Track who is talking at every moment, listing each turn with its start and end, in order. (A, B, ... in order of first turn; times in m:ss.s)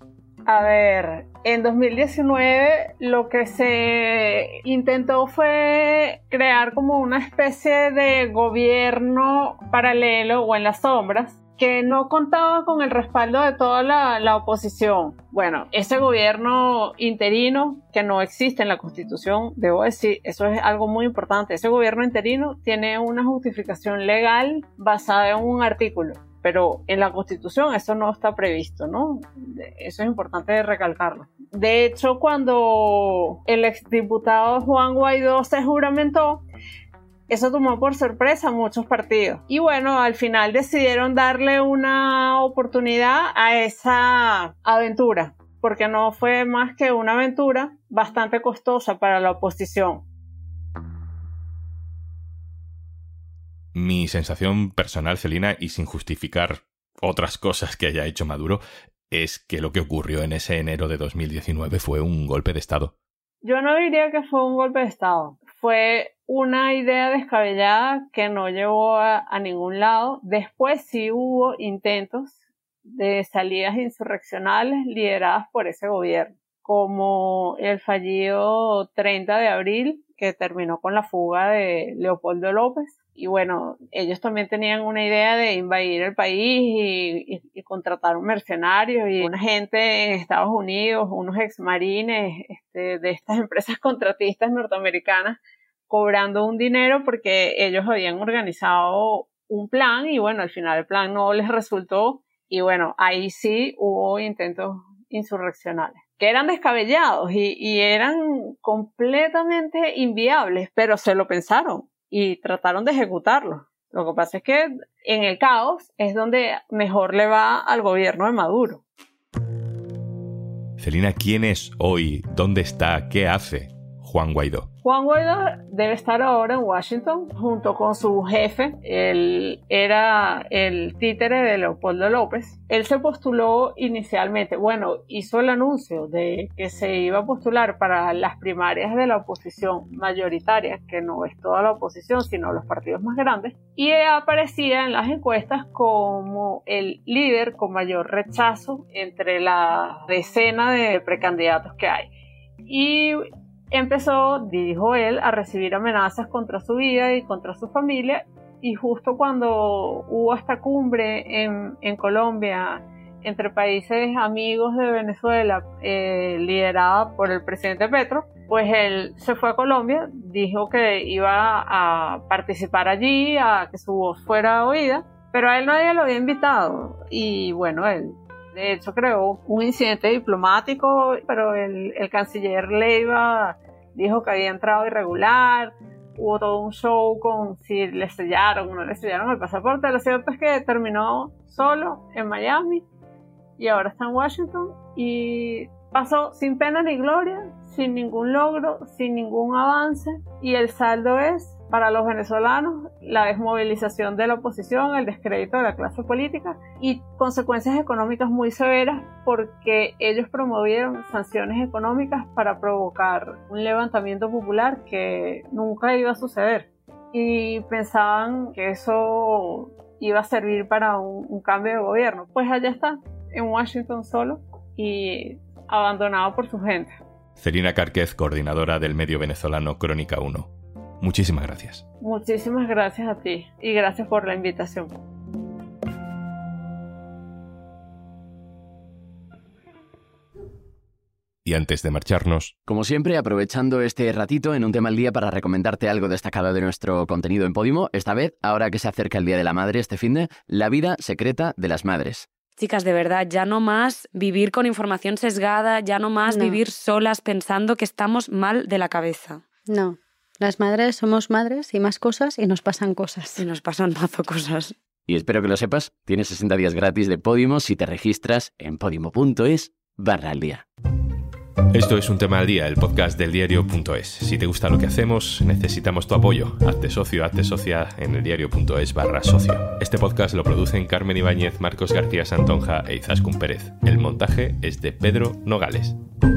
0:00.5-0:36.4 A
0:37.3-0:50.0 A
0:53.8-1:02.9 B
1:03.4-1:12.3 A
1:12.9-1:35.4 A
1:35.9-1:58.8 A
2:00.8-2:04.7 B
2:04.8-2:32.1 A
2:32.7-3:12.8 A
3:13.6-3:46.9 A
3:47.4-3:50.5 B
3:51.0-3:51.8 B
3:52.0-3:55.0 A
4:01.4-4:02.5 B
4:02.7-4:12.3 C
4:12.6-4:19.4 D
4:16.2-4:16.6 E
4:19.7-4:23.5 E
4:23.4-4:24.8 D
4:25.1-4:30.6 C
4:31.7-4:46.0 B